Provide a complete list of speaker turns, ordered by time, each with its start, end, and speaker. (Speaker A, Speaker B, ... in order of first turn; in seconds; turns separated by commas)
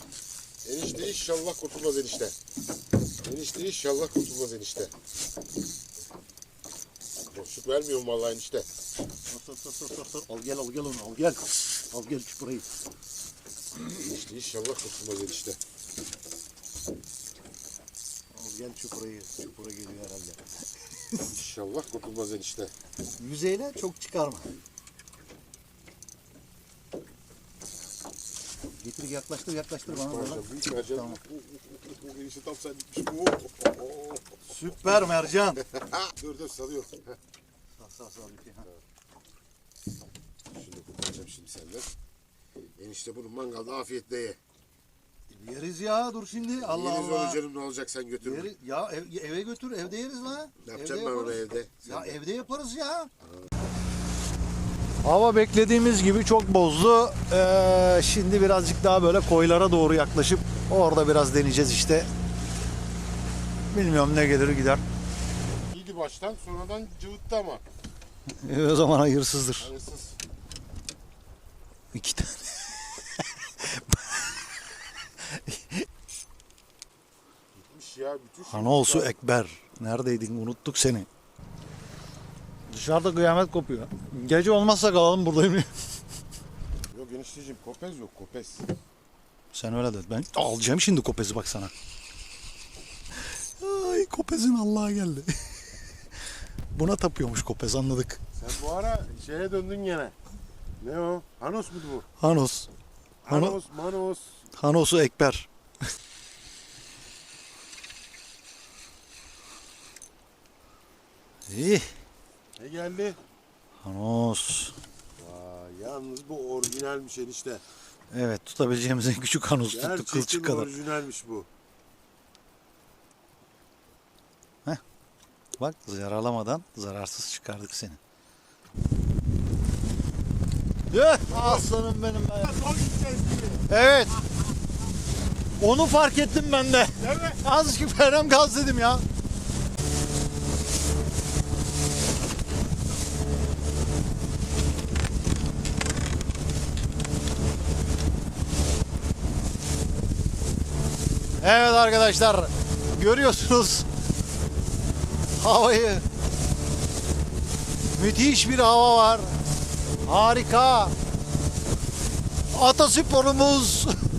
Speaker A: 0.6-2.3, Speaker A: 3.2-4.9, Speaker A: 7.3-8.7, Speaker B: 9.3-12.7, Speaker A: 13.7-15.6, Speaker B: 18.3-20.4, Speaker A: 21.3-22.7, Speaker B: 23.2-24.5, Speaker B: 28.8-31.2, Speaker A: 29.9-34.2, Speaker B: 34.5-35.6, Speaker A: 35.7-37.1, Speaker B: 37.8-38.6, Speaker A: 40.5-41.9, Speaker A: 42.8-44.4, Speaker B: 45.3-47.4, Speaker A: 46.6-48.5, Speaker B: 48.2-53.1, Speaker A: 50.6-52.2, Speaker B: 55.0-62.1, Speaker B: 63.7-64.8, Speaker A: 65.7-67.6, Speaker B: 68.4-69.7, Speaker A: 69.6-70.2, Speaker B: 71.9-74.4, Speaker B: 75.2-75.8, Speaker A: 77.5-79.1, Speaker B: 78.5-81.1, Speaker B: 82.7-85.7, Speaker A: 86.9-88.7, Speaker B: 89.5-91.7, Speaker B: 93.6-95.4, Speaker B: 96.7-98.2, Speaker A: 98.3-100.1, Speaker A: 100.8-102.0, Speaker B: 102.2-102.7, Speaker A: 103.2-104.3, Speaker B: 103.3-103.6, Speaker B: 104.6-105.5, Speaker B: 111.5-111.9, Speaker A: 112.6-113.2, Speaker B: 113.8-114.7, Speaker A: 115.2-117.6, Speaker B: 118.1-120.8, Speaker A: 119.7-121.5, Speaker B: 125.6-128.0, Speaker B: 130.9-132.7, Speaker A: 132.5-133.6, Speaker B: 133.7-134.2, Speaker B: 135.6-139.0, Speaker B: 151.4-153.9, Speaker B: 155.4-156.0, Speaker B: 157.9-159.3, Speaker B: 160.0-160.9, Speaker B: 162.5-164.0